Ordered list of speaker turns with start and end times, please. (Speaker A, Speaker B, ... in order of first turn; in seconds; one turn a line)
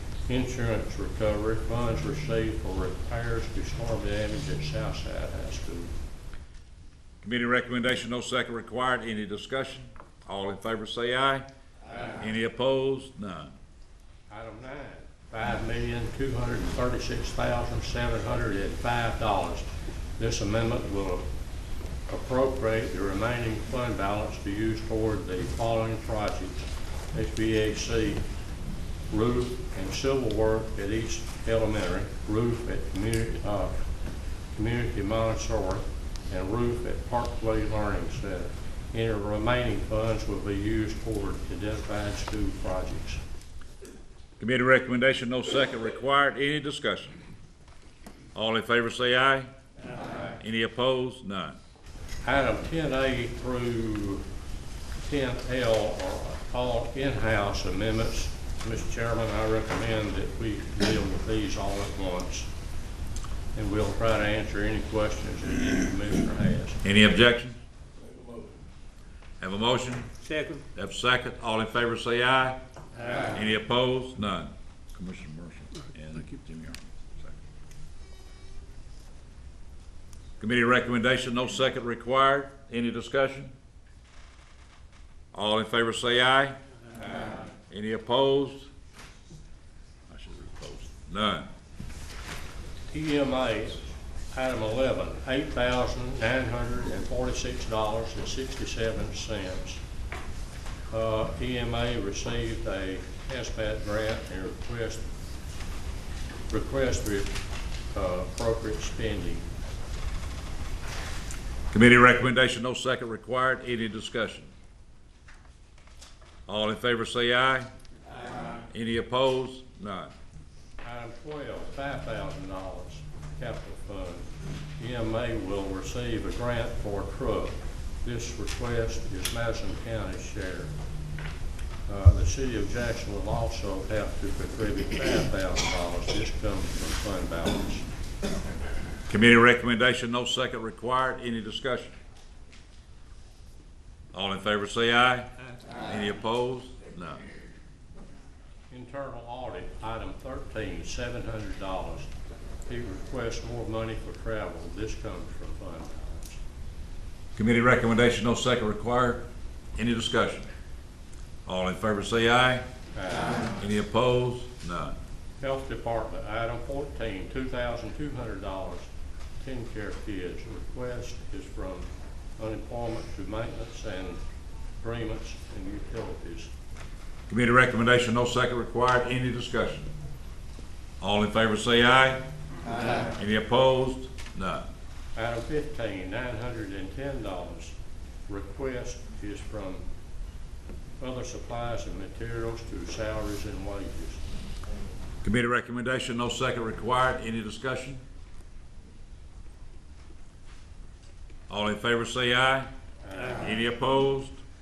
Speaker A: 0.3-5.9
Speaker B: 7.2-11.5
Speaker B: 12.0-13.5
Speaker A: 14.3-21.2
Speaker A: 22.1-28.2
Speaker A: 29.1-33.8
Speaker A: 34.5-43.2
Speaker B: 44.4-47.1
Speaker B: 48.3-49.5
Speaker B: 50.4-51.6
Speaker A: 52.2-54.2
Speaker A: 55.0-62.5
Speaker A: 63.5-66.8
Speaker B: 66.8-67.6
Speaker B: 69.4-70.1
Speaker B: 70.7-72.6
Speaker B: 73.2-77.3
Speaker B: 80.4-83.5
Speaker B: 85.3-86.6
Speaker B: 87.7-88.7
Speaker B: 90.1-91.5
Speaker A: 92.9-99.8
Speaker A: 100.9-105.1
Speaker A: 106.5-107.3
Speaker A: 107.9-109.4
Speaker B: 111.7-114.5
Speaker B: 116.5-117.7
Speaker B: 118.7-120.1
Speaker A: 120.8-124.3
Speaker A: 124.8-130.7
Speaker A: 131.8-137.8
Speaker B: 139.1-141.9
Speaker B: 144.1-145.3
Speaker B: 145.8-147.2
Speaker A: 148.7-152.1
Speaker A: 152.7-156.4
Speaker B: 157.3-159.2
Speaker B: 159.8-160.5
Speaker B: 161.4-162.6
Speaker A: 162.9-163.5
Speaker B: 163.6-164.9
Speaker A: 165.4-168.9
Speaker A: 169.4-174.2
Speaker A: 174.8-176.5
Speaker B: 177.3-179.9
Speaker B: 181.0-182.2
Speaker B: 183.1-184.7
Speaker A: 185.1-187.7
Speaker A: 188.3-189.8
Speaker A: 191.0-194.2
Speaker B: 195.2-198.0
Speaker B: 201.5-202.7
Speaker A: 203.0-203.4
Speaker B: 203.4-204.4